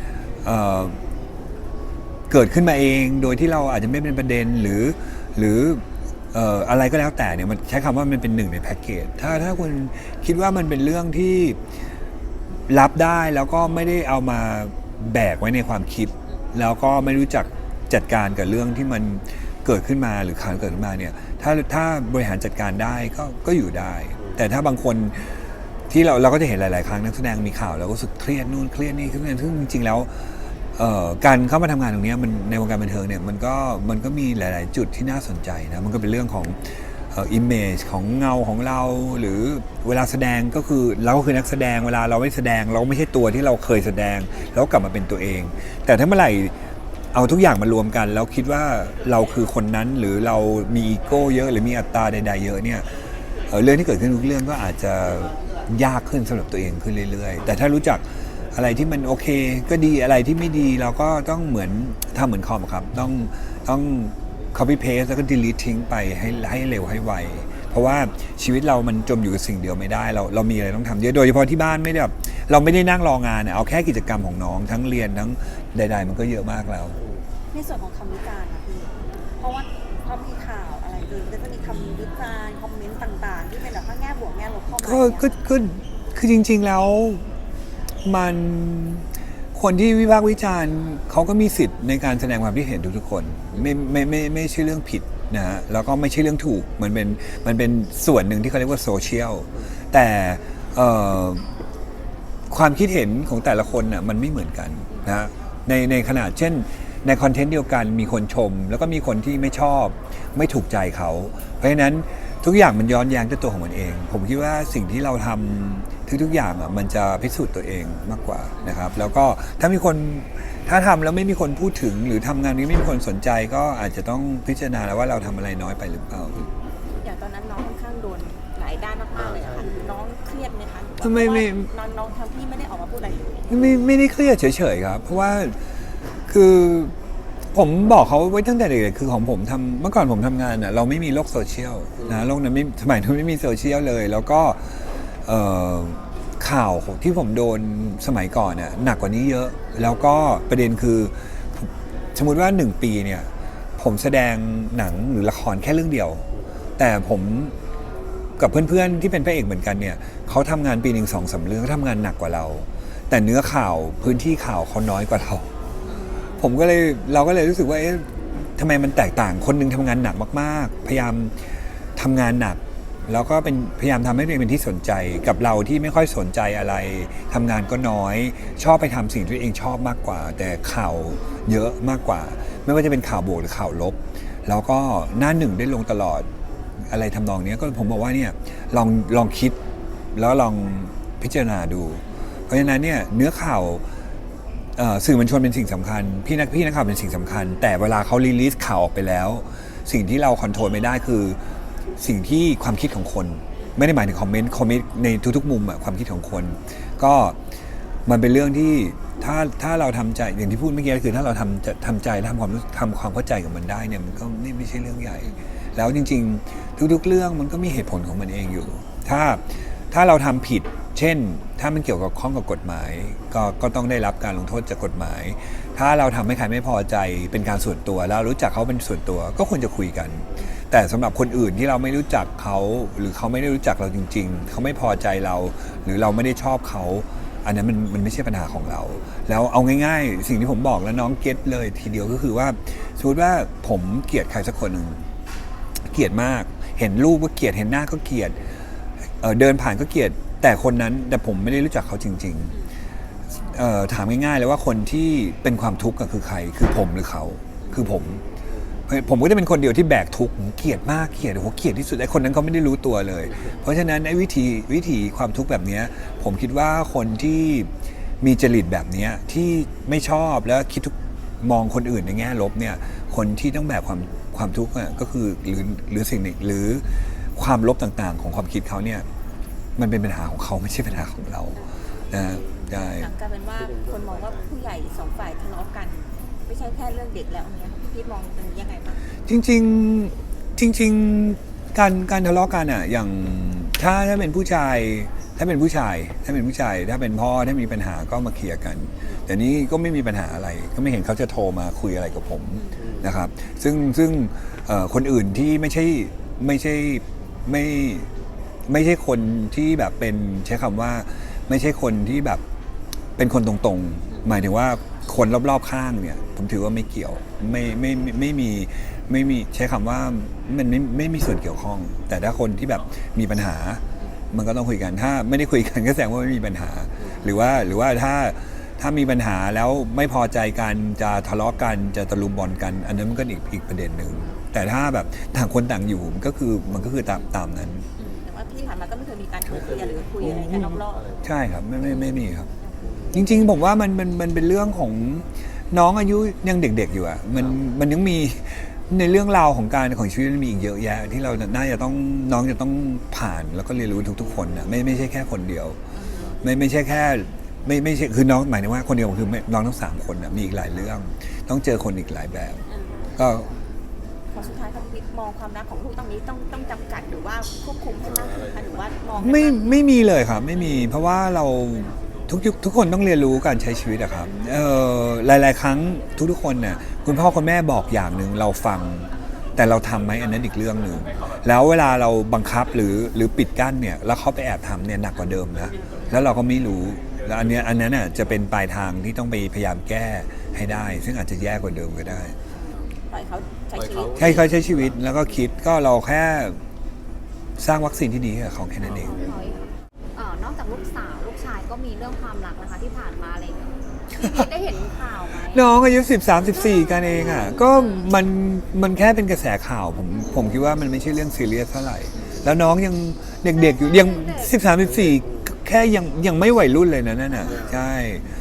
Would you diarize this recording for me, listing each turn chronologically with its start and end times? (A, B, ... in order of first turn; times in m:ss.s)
0:00.4-0:01.0 A
0:02.3-0:11.6 A
0:12.7-0:46.5 A
0:47.1-0:52.9 A
0:53.5-1:17.0 A
1:17.5-1:25.3 B
1:24.8-1:27.2 A
1:28.0-1:41.5 A
1:42.5-2:06.4 A
1:58.6-1:59.0 B
2:07.0-2:13.6 B
2:11.0-2:11.7 A
2:13.5-2:15.6 A
2:16.3-2:16.9 A
2:17.5-2:36.2 A
2:36.8-2:37.5 A
2:38.4-2:45.5 A
2:45.9-2:46.2 B
2:46.4-3:06.3 A
3:06.9-3:09.6 A
3:10.1-3:13.8 A
3:14.8-3:21.4 A
3:22.0-3:27.4 A
3:28.0-4:05.0 A
4:05.8-4:08.4 A
4:09.2-4:12.6 A
4:13.4-4:18.2 A
4:18.9-4:27.7 A
4:28.2-4:39.0 A
4:39.8-4:43.1 A
4:41.5-4:41.8 B
4:42.5-4:49.0 B
4:49.2-5:08.1 A
5:02.5-5:02.9 B
5:08.7-5:12.4 A
5:13.2-5:37.8 A
5:27.0-5:27.3 B
5:38.0-5:41.2 B
5:40.2-5:42.5 A
5:42.6-5:43.3 B
5:43.1-5:55.8 A
5:56.0-5:56.4 B
5:56.4-6:02.6 A
6:02.7-6:03.1 B
6:03.2-6:03.5 A
6:04.3-6:09.7 B
6:09.2-6:32.3 A
6:33.1-6:34.5 B
6:34.1-6:36.6 A
6:37.6-6:39.2 A
6:38.9-6:45.7 C
6:44.2-6:44.5 A
6:45.5-6:58.3 A
6:46.7-6:48.1 C
6:53.5-6:54.5 C